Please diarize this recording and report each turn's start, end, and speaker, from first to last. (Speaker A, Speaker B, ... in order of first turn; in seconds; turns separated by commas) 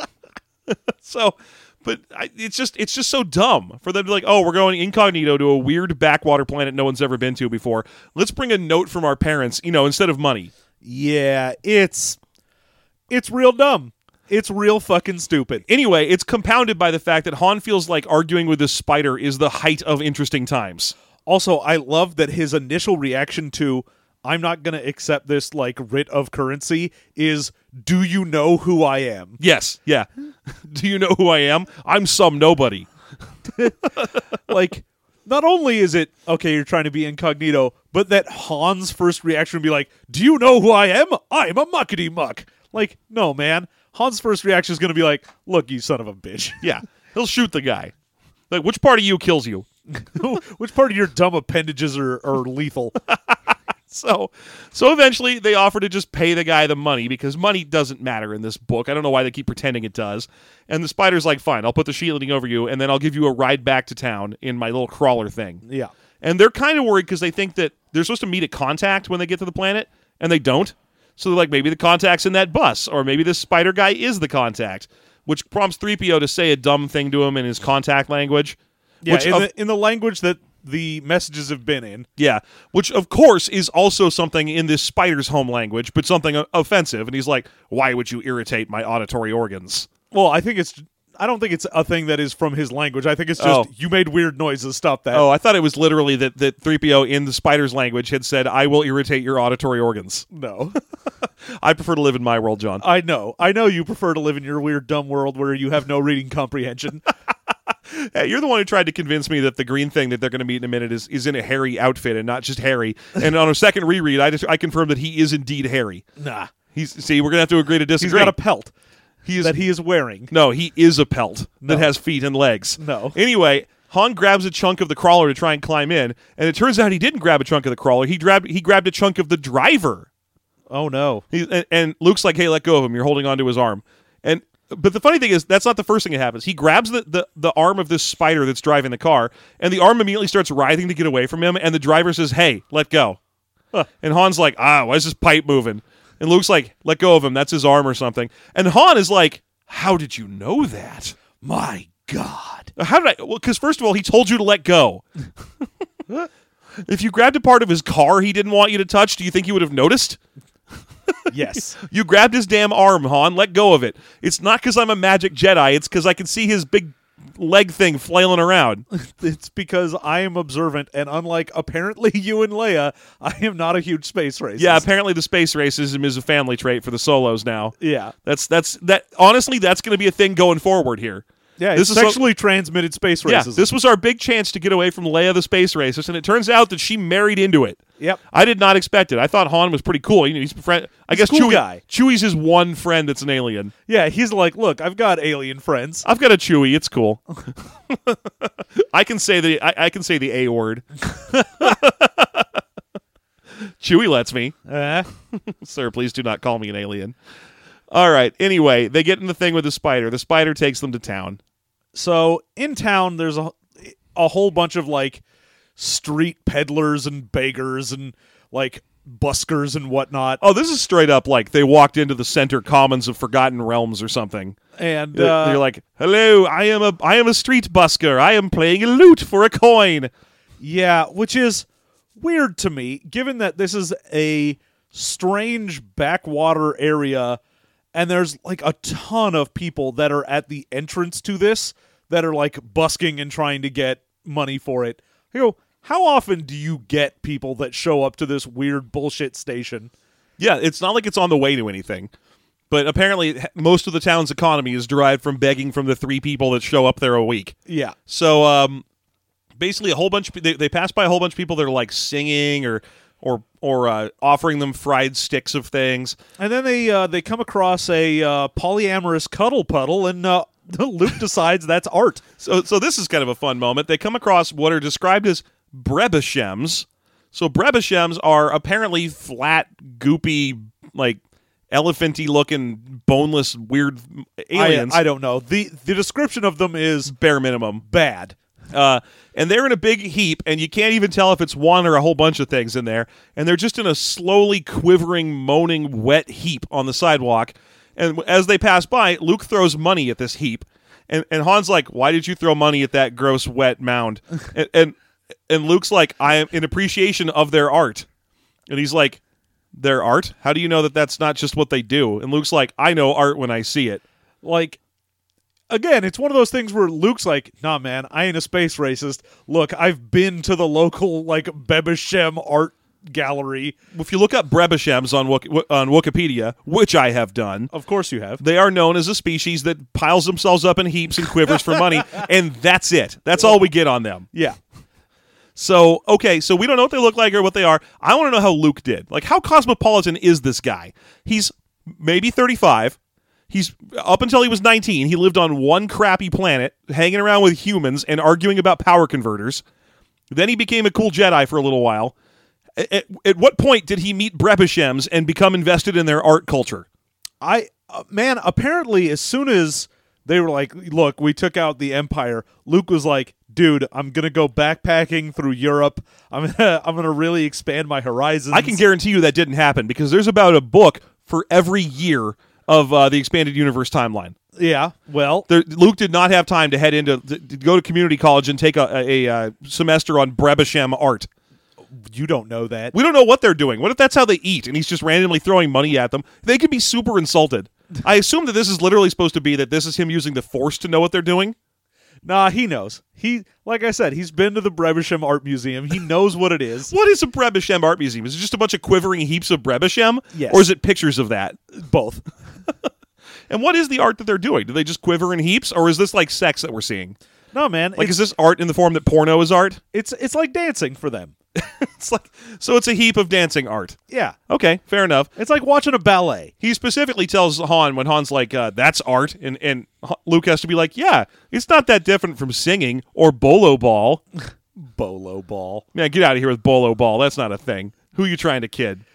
Speaker A: 0.7-10.5, Speaker B: 10.8-12.2, Speaker B: 13.1-15.6, Speaker A: 15.7-20.9, Speaker B: 21.2-29.4, Speaker A: 29.4-32.9, Speaker B: 33.5-46.6, Speaker A: 46.6-47.9, Speaker A: 48.5-49.7, Speaker B: 49.9-53.0, Speaker A: 53.9-65.6, Speaker B: 65.6-65.9, Speaker A: 66.2-79.5, Speaker B: 79.0-82.1, Speaker A: 82.2-89.9, Speaker B: 90.1-95.2, Speaker A: 93.4-93.7, Speaker A: 95.1-100.2, Speaker B: 100.3-100.8, Speaker A: 101.4-102.8, Speaker B: 102.8-107.1, Speaker A: 107.9-116.0, Speaker B: 116.2-116.5, Speaker A: 116.7-118.3, Speaker B: 118.0-118.7, Speaker A: 119.2-119.5, Speaker B: 119.4-120.3, Speaker A: 120.3-130.1, Speaker B: 121.6-121.9, Speaker B: 122.8-123.2, Speaker B: 130.7-131.2, Speaker A: 131.3-143.2, Speaker A: 144.0-151.2, Speaker B: 151.4-152.7, Speaker A: 152.8-155.0, Speaker A: 156.8-160.2, Speaker B: 161.3-161.8, Speaker A: 161.8-168.8, Speaker B: 168.9-174.8, Speaker A: 174.6-182.2, Speaker B: 177.8-178.1, Speaker B: 181.6-183.7, Speaker A: 183.2-187.8, Speaker A: 188.3-193.7, Speaker B: 191.1-191.8, Speaker B: 193.9-196.0, Speaker A: 196.0-197.2, Speaker A: 197.9-202.6, Speaker A: 203.8-204.6, Speaker B: 204.7-205.1, Speaker A: 205.3-207.1, Speaker A: 207.9-211.4, Speaker B: 211.9-215.2, Speaker B: 215.8-220.4, Speaker A: 220.4-224.6, Speaker B: 224.8-225.6, Speaker A: 225.1-230.1, Speaker B: 230.6-237.4, Speaker B: 237.9-249.9, Speaker A: 250.4-252.1, Speaker A: 252.7-257.6, Speaker B: 257.7-257.9, Speaker A: 258.1-258.8, Speaker A: 259.6-266.2, Speaker B: 266.4-272.2, Speaker A: 272.4-281.2, Speaker A: 281.7-285.0, Speaker B: 284.5-287.1, Speaker A: 287.1-287.8, Speaker B: 287.8-288.4, Speaker A: 288.7-304.9, Speaker A: 305.5-308.1, Speaker A: 308.7-309.2, Speaker A: 309.7-314.0, Speaker B: 314.4-314.8, Speaker B: 315.7-323.8, Speaker A: 323.9-327.7, Speaker B: 327.7-328.4, Speaker A: 328.4-334.3, Speaker A: 335.6-343.0, Speaker A: 343.5-349.6, Speaker A: 350.3-352.1, Speaker A: 352.8-356.9, Speaker B: 357.4-368.8, Speaker A: 368.5-374.3, Speaker B: 374.6-375.5, Speaker A: 375.5-381.3, Speaker B: 382.0-382.9, Speaker A: 382.9-391.5, Speaker B: 392.2-396.9, Speaker A: 396.9-401.6, Speaker B: 400.3-400.6, Speaker B: 401.7-402.2, Speaker A: 403.5-407.1, Speaker B: 407.5-408.2, Speaker A: 408.0-409.8, Speaker B: 409.9-411.3, Speaker A: 411.6-414.0, Speaker B: 414.1-414.4, Speaker A: 414.5-415.3, Speaker B: 415.4-416.5, Speaker A: 416.6-424.2, Speaker B: 424.8-425.8, Speaker A: 425.9-429.0